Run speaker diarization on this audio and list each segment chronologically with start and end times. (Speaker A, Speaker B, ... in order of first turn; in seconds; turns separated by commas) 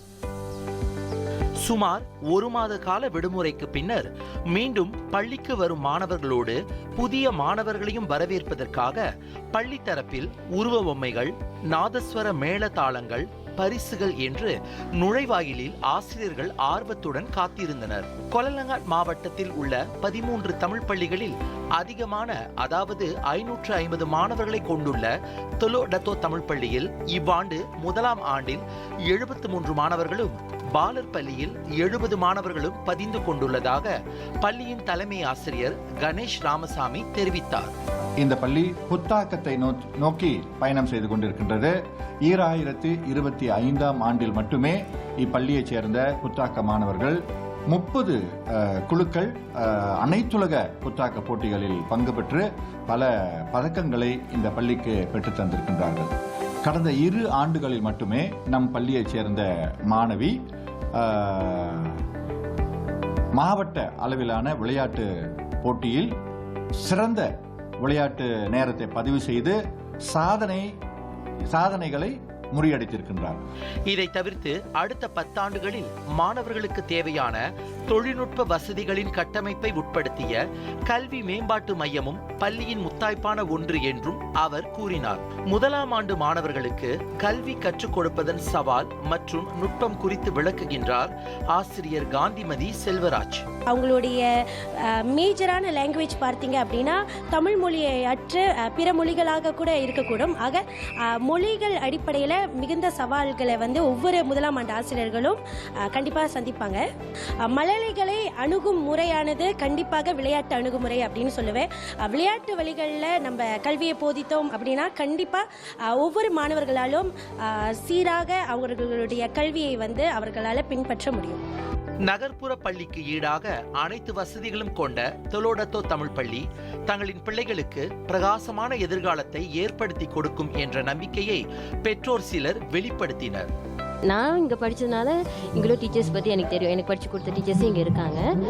Speaker A: 1.6-9.0, Speaker A: 9.5-33.9, Speaker A: 34.4-37.7, Speaker B: 38.2-41.7, Speaker B: 42.2-47.2, Speaker B: 47.7-56.1, Speaker B: 56.6-60.4, Speaker B: 61.0-62.0, Speaker B: 63.4-65.1, Speaker B: 65.6-66.1, Speaker B: 66.8-67.3, Speaker B: 67.8-69.6, Speaker B: 70.1-70.7, Speaker B: 71.5-73.4, Speaker A: 73.9-80.4, Speaker A: 80.9-93.4, Speaker C: 93.7-94.2, Speaker C: 95.0-106.8, Speaker C: 107.4-121.4, Speaker A: 122.1-133.5, Speaker D: 134.1-138.3